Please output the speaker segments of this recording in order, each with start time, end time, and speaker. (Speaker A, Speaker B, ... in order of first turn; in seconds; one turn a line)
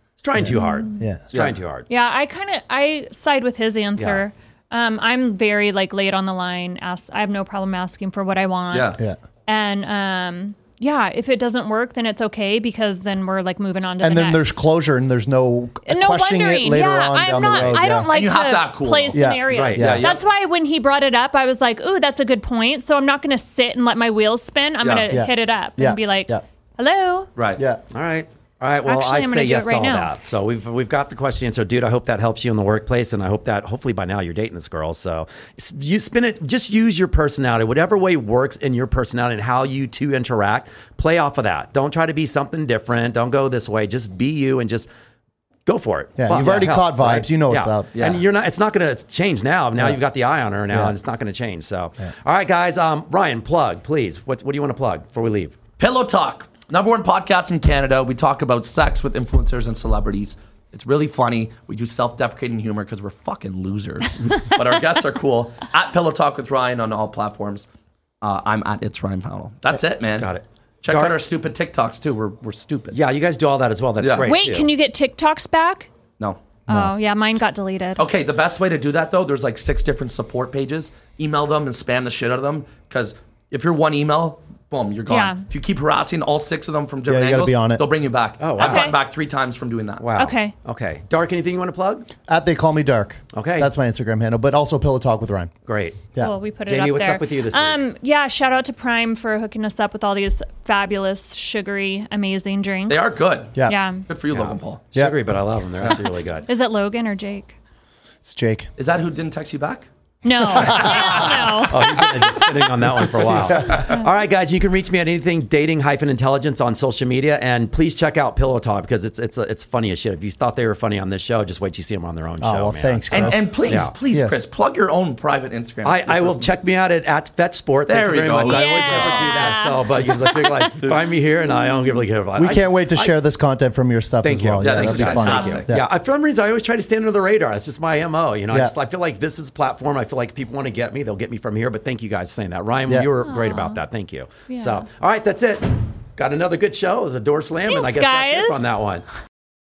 Speaker A: 0.2-1.9
Speaker B: 0.3-1.3
Speaker C: 0.5-1.0
Speaker D: 1.3-1.6
Speaker C: 1.9-14.6
Speaker D: 8.7-9.0
Speaker B: 14.0-18.1
Speaker C: 15.8-27.3
Speaker D: 18.1-20.2
Speaker B: 19.1-20.1
Speaker A: 19.5-20.0
Speaker D: 24.8-25.1
Speaker B: 25.1-26.4
Speaker D: 27.3-27.6
Speaker A: 27.9-44.9
Speaker C: 28.8-30.1
Speaker A: 45.6-55.6
Speaker B: 46.2-47.9
Speaker D: 47.9-48.2
Speaker D: 55.8-67.7
Speaker D: 68.2-70.3
Speaker A: 70.2-71.2
Speaker D: 70.8-73.0
Speaker A: 72.9-74.7
Speaker D: 74.0-74.3
Speaker C: 74.2-75.9
Speaker C: 76.7-78.0
Speaker B: 76.7-76.9
Speaker D: 78.0-90.1
Speaker C: 85.1-85.4
Speaker B: 87.1-87.8
Speaker A: 88.4-89.0
Speaker C: 88.6-89.0
Speaker A: 90.0-92.1
Speaker C: 90.2-90.5
Speaker B: 92.3-95.5
Speaker A: 93.3-93.7
Speaker A: 95.7-96.1
Speaker C: 96.2-104.0
Speaker A: 96.7-97.8
Speaker D: 102.9-104.8
Speaker A: 104.3-106.5
Speaker C: 106.5-107.5
Speaker B: 108.2-108.7
Speaker D: 108.8-109.9
Speaker C: 110.2-113.0
Speaker D: 110.6-111.3
Speaker A: 110.7-123.9
Speaker B: 113.5-113.9
Speaker B: 122.4-124.3
Speaker D: 123.1-126.5
Speaker A: 125.8-133.1
Speaker D: 127.9-129.6
Speaker C: 128.4-130.7
Speaker B: 132.3-135.8
Speaker A: 134.2-149.0
Speaker D: 134.6-135.7
Speaker C: 143.2-143.8
Speaker C: 144.5-144.8
Speaker C: 147.7-148.7